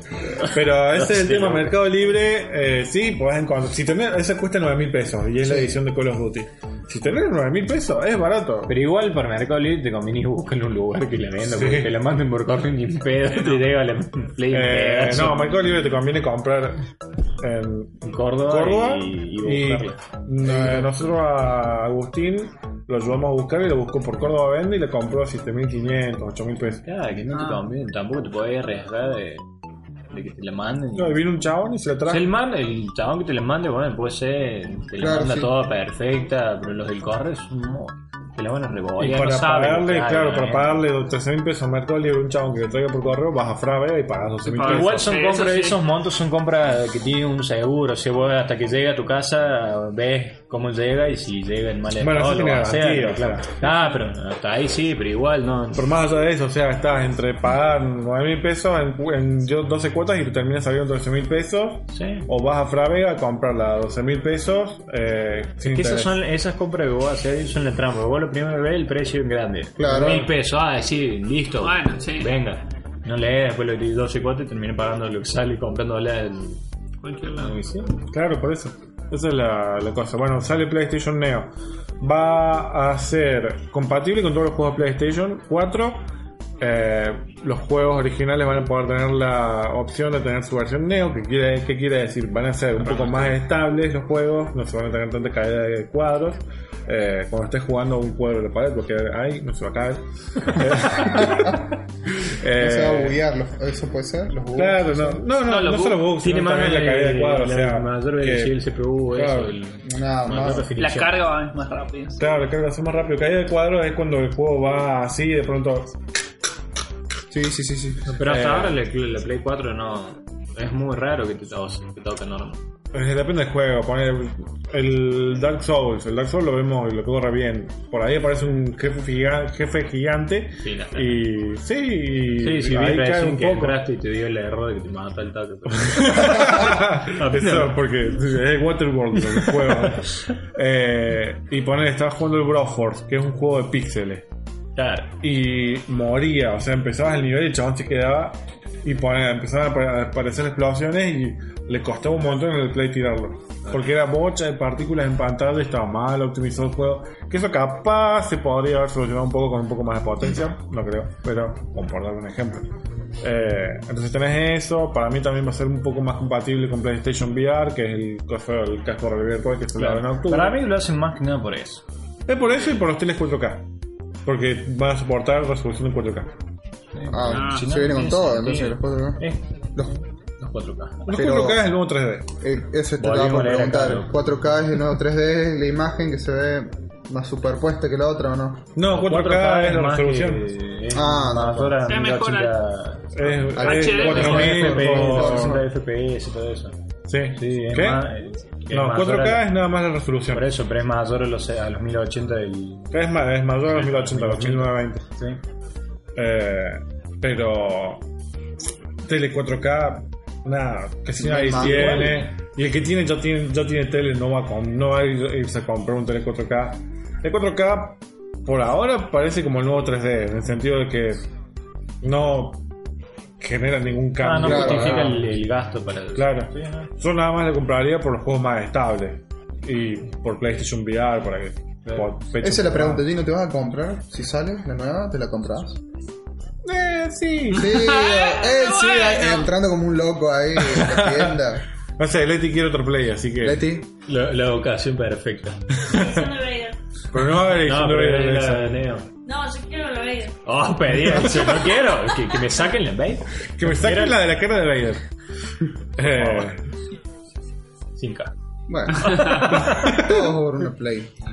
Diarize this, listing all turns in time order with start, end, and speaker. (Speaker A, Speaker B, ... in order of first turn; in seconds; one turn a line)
Speaker A: 0.4-1.8
Speaker B: 0.5-8.8
Speaker C: 5.5-5.7
Speaker A: 8.7-15.6
Speaker B: 11.4-11.9
Speaker D: 13.3-13.7
Speaker B: 14.5-16.8
Speaker B: 17.4-26.8
Speaker A: 18.0-20.0
Speaker C: 20.5-20.8
Speaker A: 26.8-29.4
Speaker C: 27.3-27.6
Speaker A: 30.1-31.2
Speaker B: 30.9-32.3
Speaker A: 32.1-40.8
Speaker C: 35.0-35.5
Speaker B: 39.0-45.1
Speaker D: 44.5-45.8
Speaker A: 44.6-55.9
Speaker B: 52.0-53.5
Speaker B: 55.7-66.1
Speaker A: 61.9-62.3
Speaker A: 65.6-76.6
Speaker C: 69.8-70.3
Speaker D: 71.6-72.3
Speaker D: 77.0-77.5
Speaker A: 77.3-78.0
Speaker B: 78.1-86.0
Speaker B: 86.6-101.7
Speaker A: 92.9-93.2
Speaker C: 101.2-101.5
Speaker B: 102.2-103.2
Speaker C: 102.6-105.2
Speaker B: 104.5-108.6
Speaker D: 105.4-106.0
Speaker A: 106.2-111.1
Speaker B: 109.1-109.5
Speaker C: 109.8-110.7
Speaker D: 110.8-112.2
Speaker B: 112.2-116.0
Speaker C: 117.3-118.1
Speaker A: 118.1-122.6
Speaker B: 118.2-118.8
Speaker B: 122.9-133.8
Speaker A: 130.6-131.2
Speaker A: 132.4-137.8
Speaker B: 135.8-144.2
Speaker A: 139.2-140.0
Speaker A: 144.8-145.1
Speaker B: 145.2-162.7
Speaker B: 163.2-170.6
Speaker A: 169.8-171.8
Speaker B: 172.3-173.6
Speaker B: 174.2-176.3
Speaker A: 176.9-179.5
Speaker C: 177.1-180.0
Speaker D: 177.3-177.7
Speaker A: 180.4-181.1
Speaker B: 181.1-182.3
Speaker C: 181.1-181.6
Speaker C: 182.4-188.7
Speaker A: 183.0-184.3
Speaker B: 188.7-190.5
Speaker A: 188.8-196.8
Speaker C: 190.9-191.8
Speaker D: 191.9-192.5
Speaker B: 193.1-195.6
Speaker D: 193.6-194.6
Speaker C: 193.6-195.7
Speaker B: 197.1-198.1
Speaker A: 197.3-199.5
Speaker B: 198.7-200.5
Speaker A: 200.3-202.9
Speaker B: 202.9-205.0
Speaker A: 203.8-205.4
Speaker B: 206.2-208.0
Speaker B: 209.0-221.2
Speaker C: 211.2-212.2
Speaker A: 211.6-212.2
Speaker B: 222.0-222.6
Speaker B: 223.4-225.2
Speaker A: 224.2-226.9
Speaker C: 224.4-225.2
Speaker B: 226.1-233.0
Speaker A: 231.8-232.1
Speaker C: 232.4-235.8
Speaker B: 236.6-237.8
Speaker D: 237.5-239.5
Speaker C: 237.5-241.6
Speaker B: 240.6-241.4
Speaker B: 242.0-243.7
Speaker C: 243.4-243.9
Speaker A: 244.1-246.1
Speaker E: 245.9-246.8
Speaker B: 247.1-248.8
Speaker A: 247.5-249.1
Speaker E: 249.2-250.4
Speaker A: 250.4-254.2
Speaker B: 253.6-255.0
Speaker B: 256.0-256.6
Speaker A: 256.1-256.5
Speaker A: 258.0-258.3
Speaker C: 258.7-261.1
Speaker A: 259.0-260.0
Speaker D: 259.1-259.4
Speaker B: 259.6-260.4